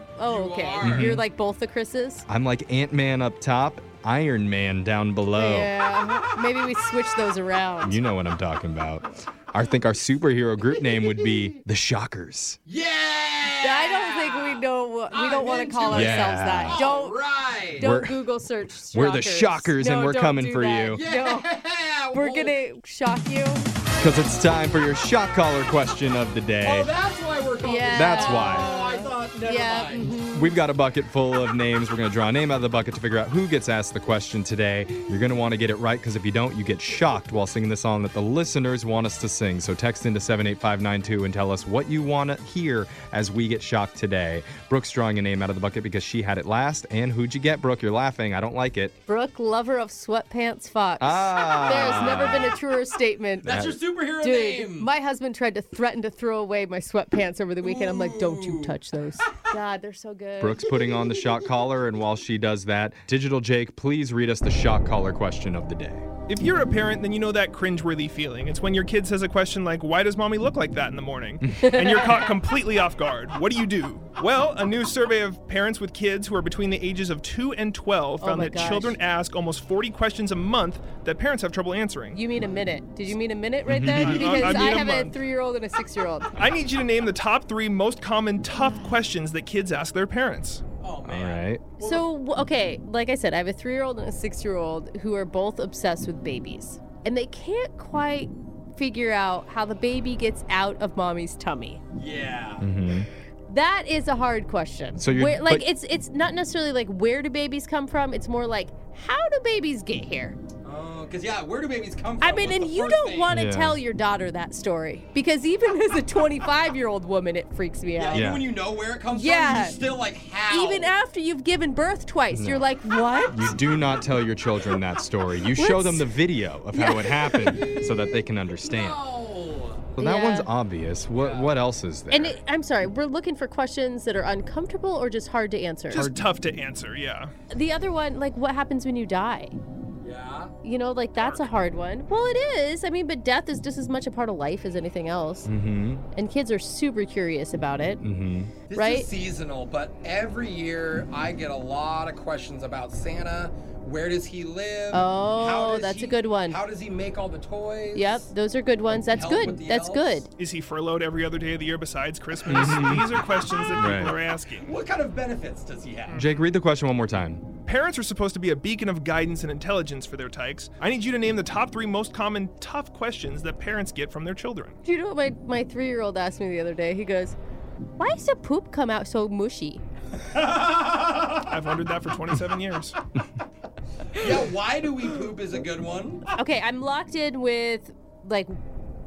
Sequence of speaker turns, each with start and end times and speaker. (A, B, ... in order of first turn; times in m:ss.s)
0:00.2-0:02.3 A
0:00.3-0:01.1 B
0:00.8-0:01.2 C
0:02.3-0:05.7 C
0:05.4-0:08.0 A
0:07.8-0:12.6 C
0:12.7-0:17.9 B
0:13.5-0:21.5 A
0:15.9-0:16.8 C
0:17.8-0:18.3 C
0:18.8-0:21.0 C
0:20.9-0:22.6 B
0:22.1-0:23.6 A
0:24.0-0:26.9 C
0:26.6-0:30.1 B
0:27.6-0:30.6 A
0:27.9-0:28.7 C
0:30.3-0:48.9 C
0:49.1-1:00.7 A
0:51.0-0:52.6 C
0:53.4-0:54.9 B
0:53.5-0:53.8 C
0:57.6-0:58.8 B
1:00.4-1:06.1 C
1:06.3-1:22.2 D
1:11.6-1:12.3 A
1:18.2-1:19.0 A
1:22.1-1:26.3 A
1:23.7-1:24.3 C
1:23.9-1:25.2 D
1:26.4-1:30.6 D
1:28.5-1:29.0 A
1:30.8-1:32.1 B
1:31.1-1:31.6 C
1:31.8-1:41.8 A
1:42.0-1:42.7 B
1:42.6-1:43.1 C
1:43.5-1:50.4 A
1:45.0-1:45.6 C
1:50.6-1:53.3 B
1:52.2-1:58.3 A
1:53.3-1:53.8 C
1:58.0-2:00.9 B
1:58.1-1:58.5 C
1:59.1-1:59.8 A
2:00.5-2:03.6 A
2:02.3-2:02.7 C
2:03.3-2:09.0 C
2:05.5-2:06.1 A
2:06.7-2:07.8 A
2:07.3-2:07.9 B
2:08.6-2:09.9 B
2:10.0-2:12.4 C
2:10.0-2:10.5 A
2:11.2-2:11.6 B
2:12.1-2:16.1 A
2:15.9-2:17.3 D
2:16.0-2:16.2 C
2:17.5-2:19.6 A
2:20.0-2:20.5 B
2:20.6-2:25.5 A
2:21.2-2:21.5 D
2:25.5-2:26.0 C
2:26.1-2:28.0 A
2:28.0-2:28.5 C
2:28.7-2:38.3 B
2:28.7-2:29.1 A
2:34.9-2:36.6 A
2:37.9-2:40.3 A
2:38.9-2:40.2 B
2:40.4-2:44.7 D
2:42.4-2:43.2 C
2:43.7-2:44.2 C
2:44.6-2:46.3 B
2:46.1-2:47.4 C
2:47.7-2:54.8 D
2:54.8-2:57.4 A
2:58.0-2:59.8 A
3:00.3-3:01.5 B
3:01.4-3:03.0 D
3:04.1-3:06.3 B
3:06.3-3:08.6 A